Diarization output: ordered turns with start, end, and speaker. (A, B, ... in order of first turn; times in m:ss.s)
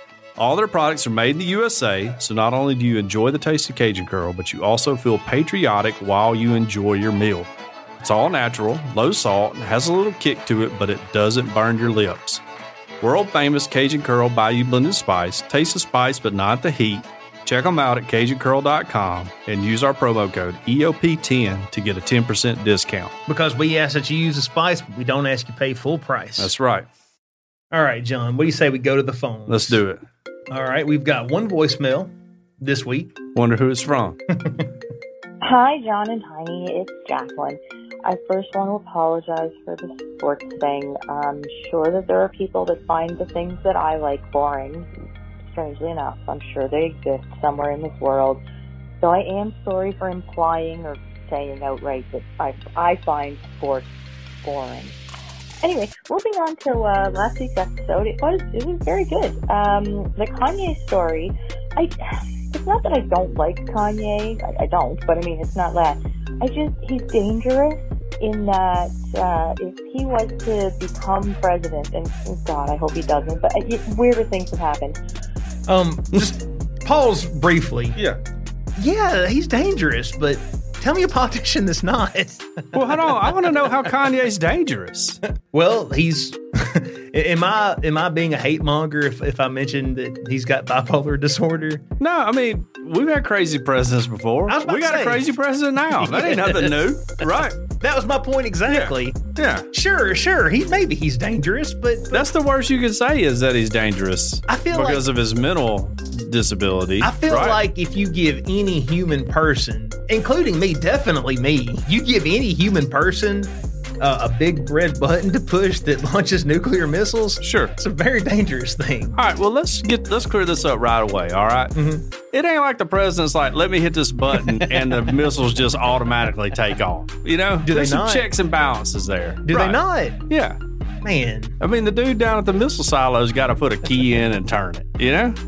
0:00.4-0:12.4 A
0:13.0-0:23.1 A
0:23.3-0:26.5 B
0:26.4-0:26.8 A
0:27.7-0:29.8 B
0:29.5-0:30.0 A
0:30.5-0:33.1 B
0:33.3-0:34.2 A
0:34.4-0:34.6 B
0:35.4-0:44.9 C
0:45.5-0:48.4 C
0:49.0-0:53.9 C
0:54.4-0:55.0 C
0:55.6-1:15.0 C
1:15.7-1:18.0 B
1:18.8-1:24.0 B
1:22.7-1:25.2 A
1:25.5-1:31.8 B
1:32.0-1:37.6 A
1:34.5-1:35.2 B
1:35.9-1:36.8 B
1:37.7-1:39.2 B
1:38.7-1:39.7 A
1:39.7-1:42.2 B
1:42.1-1:47.6 A
1:44.5-1:45.0 B
1:47.0-1:59.2 B
1:57.4-1:57.7 A
1:59.2-2:01.7 A
2:01.7-2:02.0 B
2:02.3-2:10.6 A
2:04.4-2:05.1 B
2:07.6-2:08.3 B
2:09.4-2:10.2 B
2:11.0-2:11.6 B
2:11.6-2:15.4 A